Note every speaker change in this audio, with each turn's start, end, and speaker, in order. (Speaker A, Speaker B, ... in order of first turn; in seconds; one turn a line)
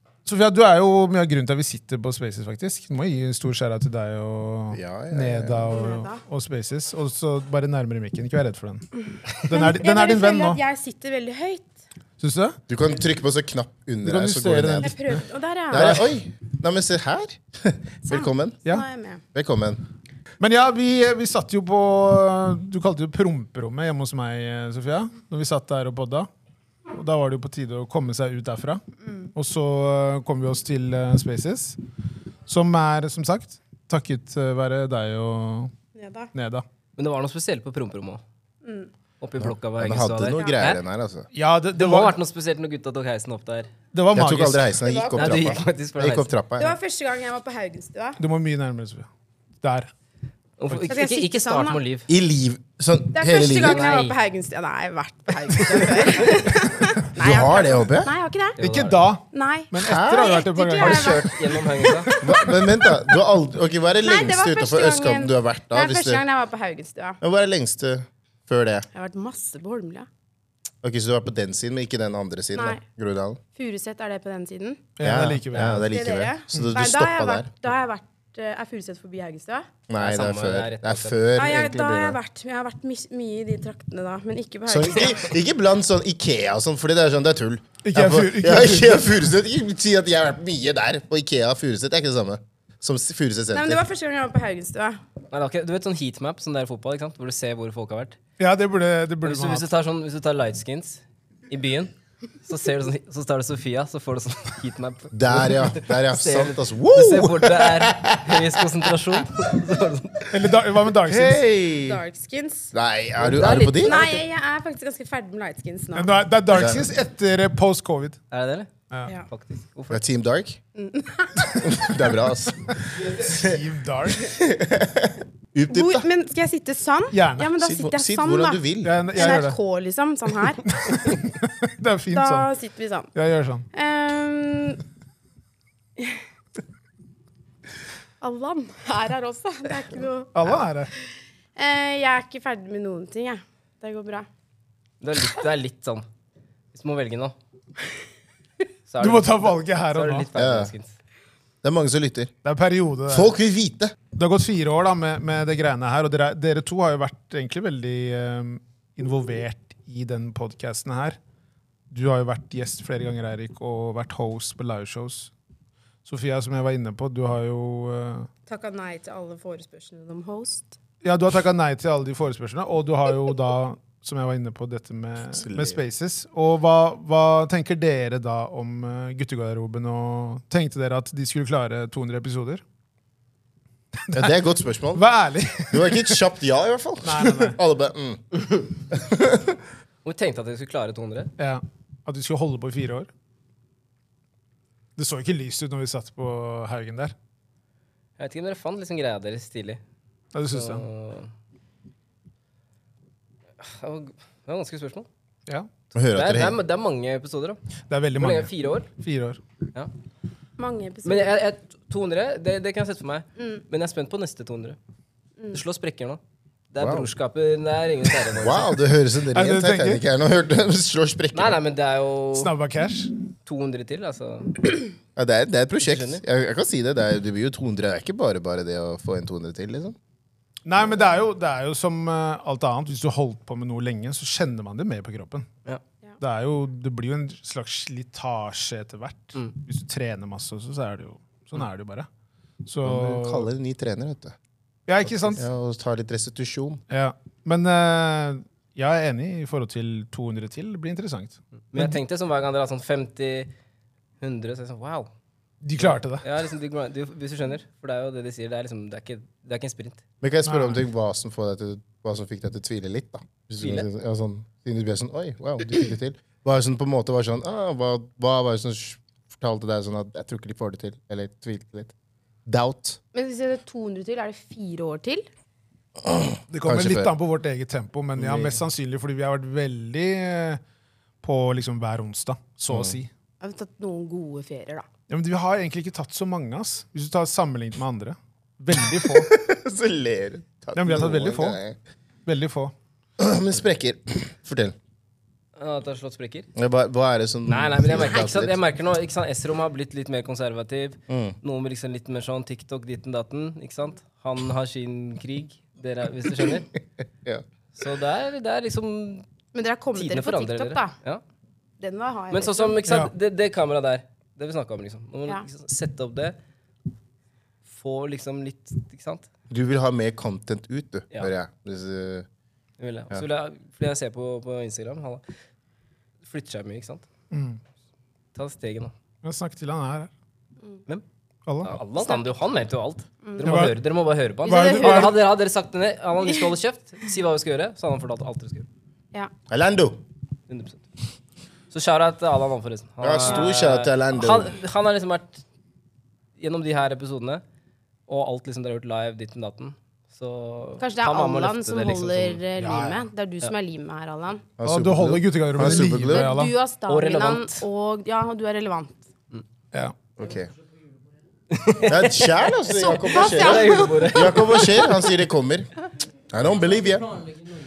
Speaker A: 0.2-8.9
Speaker B: 4.7-5.9
Speaker C: 5.7-6.2
Speaker A: 9.4-10.6
Speaker C: 9.5-11.7
Speaker A: 12.2-12.6
Speaker B: 12.7-15.0
Speaker A: 14.0-16.1
Speaker C: 14.8-16.0
Speaker B: 15.7-18.6
Speaker C: 18.1-19.2
Speaker B: 19.3-19.8
Speaker A: 20.4-26.3
Speaker A: 26.9-28.8
Speaker C: 29.0-29.3
Speaker A: 29.3-31.8
Speaker A: 32.5-35.7
Speaker C: 35.9-36.3
Speaker A: 36.3-36.6
Speaker D: 37.0-38.2
Speaker C: 38.6-38.9
Speaker D: 39.2-40.8
Speaker B: 39.8-41.3
Speaker A: 41.3-42.1
Speaker D: 41.8-43.7
Speaker A: 43.9-44.7
Speaker B: 44.1-46.7
Speaker C: 44.8-45.6
Speaker D: 45.1-46.3
Speaker C: 46.6-48.2
Speaker A: 48.2-49.1
Speaker A: 49.6-49.9
Speaker D: 50.6-52.1
Speaker C: 50.9-51.8
Speaker B: 52.1-54.0
Speaker C: 53.1-58.6
Speaker D: 53.6-54.1
Speaker B: 57.1-58.1
Speaker D: 58.6-59.0
Speaker A: 58.6-62.9
Speaker C: 59.2-62.1
Speaker B: 59.8-61.3
Speaker D: 61.3-62.1
Speaker B: 62.1-66.2
Speaker C: 64.0-67.2
Speaker B: 67.2-68.9
Speaker C: 68.9-70.1
Speaker B: 70.8-73.4
Speaker C: 72.5-72.8
Speaker C: 73.5-74.9
Speaker A: 75.0-75.9
Speaker B: 75.0-77.5
Speaker C: 75.9-79.7
Speaker B: 79.9-82.2
Speaker D: 79.9-81.7
Speaker C: 81.4-85.3
Speaker B: 84.7-93.8
Speaker A: 87.8-89.1
Speaker C: 93.5-95.0
Speaker D: 95.3-98.2
Speaker A: 98.4-99.7
Speaker D: 99.2-101.9
Speaker D: 102.4-110.2
Speaker B: 105.1-108.5
Speaker A: 110.3-111.4
Speaker B: 111.0-112.0
Speaker C: 111.8-112.7
Speaker B: 112.7-114.1
Speaker D: 113.2-114.1
Speaker C: 113.7-116.2
Speaker A: 115.9-118.2
Speaker B: 116.5-116.8
Speaker D: 118.3-120.0
Speaker B: 119.9-120.6
Speaker C: 120.8-121.6
Speaker B: 121.6-123.5
Speaker A: 123.1-124.3
Speaker B: 124.2-126.0
Speaker C: 125.7-130.6
Speaker A: 127.1-127.5
Speaker B: 127.6-129.3
Speaker A: 128.8-129.6
Speaker A: 130.7-132.5
Speaker C: 132.1-133.1
Speaker A: 133.1-133.7
Speaker C: 133.7-134.8
Speaker C: 138.2-140.3
Speaker A: 140.3-140.9
Speaker C: 141.6-144.3
Speaker D: 145.0-146.0
Speaker D: 146.7-147.3
Speaker D: 148.9-150.9
Speaker A: 149.0-150.2
Speaker B: 150.3-150.7
Speaker B: 151.6-152.3
Speaker A: 152.4-153.3
Speaker B: 153.1-153.9
Speaker A: 154.1-161.2
Speaker A: 161.9-165.3
Speaker A: 166.1-168.3
Speaker C: 168.5-170.7
Speaker A: 171.0-182.6
Speaker B: 175.4-175.8
Speaker B: 184.1-185.1
Speaker A: 184.9-186.2
Speaker B: 185.7-188.3
Speaker A: 187.0-187.6
Speaker B: 188.9-189.6
Speaker D: 190.0-191.3
Speaker A: 191.4-193.1
Speaker A: 195.0-197.1
Speaker D: 198.2-199.8
Speaker A: 200.3-200.8
Speaker D: 200.5-201.3
Speaker D: 203.6-205.1
Speaker B: 205.9-206.6
Speaker D: 206.1-207.6
Speaker A: 207.9-209.4
Speaker D: 208.2-208.9
Speaker C: 210.6-211.4
Speaker D: 211.0-214.8
Speaker D: 215.5-216.2
Speaker D: 216.7-218.7
Speaker B: 216.8-217.1
Speaker B: 218.3-221.6
Speaker A: 219.3-220.0
Speaker D: 221.3-222.5
Speaker A: 222.3-223.1
Speaker D: 223.4-224.5
Speaker B: 225.2-229.9
Speaker D: 225.8-226.2
Speaker A: 230.7-235.5
Speaker A: 236.2-242.1
Speaker A: 242.6-243.5
Speaker B: 242.8-244.3
Speaker A: 244.9-245.4
Speaker B: 245.1-246.8
Speaker A: 246.9-252.0
Speaker D: 251.7-253.5
Speaker D: 254.2-255.1
Speaker A: 255.6-256.2
Speaker D: 255.8-260.0
Speaker B: 260.2-271.9
Speaker A: 260.4-260.8
Speaker D: 263.6-263.9
Speaker B: 272.4-273.0
Speaker C: 273.1-275.2
Speaker B: 276.0-277.1
Speaker A: 276.5-280.6
Speaker B: 278.2-278.6
Speaker A: 281.2-283.1
Speaker B: 282.7-283.0
Speaker C: 283.4-284.9
Speaker A: 285.1-289.3
Speaker B: 288.9-291.8
Speaker A: 290.7-291.6
Speaker A: 292.2-292.7
Speaker B: 293.2-294.7
Speaker D: 295.6-296.5
Speaker B: 296.6-298.6
Speaker D: 297.5-306.6
Speaker B: 301.1-301.4
Speaker D: 307.7-309.2
Speaker C: 309.5-311.0
Speaker D: 309.9-311.2
Speaker C: 311.8-312.9
Speaker D: 312.3-316.4
Speaker D: 317.7-319.3
Speaker B: 319.5-322.2
Speaker D: 322.8-325.2
Speaker D: 326.2-327.0
Speaker A: 327.3-327.6
Speaker D: 328.3-328.9
Speaker A: 329.2-330.1
Speaker A: 331.5-331.8
Speaker D: 331.6-338.6
Speaker C: 331.9-332.3
Speaker C: 333.2-333.6
Speaker A: 333.4-333.8
Speaker A: 334.4-335.2
Speaker C: 334.4-335.1
Speaker B: 339.5-340.0
Speaker D: 340.5-340.8
Speaker D: 341.7-345.4
Speaker B: 343.0-344.5
Speaker C: 343.3-343.7
Speaker D: 346.4-347.4
Speaker D: 348.1-352.4
Speaker C: 350.8-354.5
Speaker A: 352.6-353.0
Speaker B: 354.6-356.3
Speaker A: 354.6-356.5
Speaker C: 355.6-359.0
Speaker D: 356.9-357.6
Speaker B: 360.2-360.5
Speaker D: 361.5-364.8
Speaker B: 361.9-365.7
Speaker C: 362.7-364.4
Speaker B: 366.3-367.3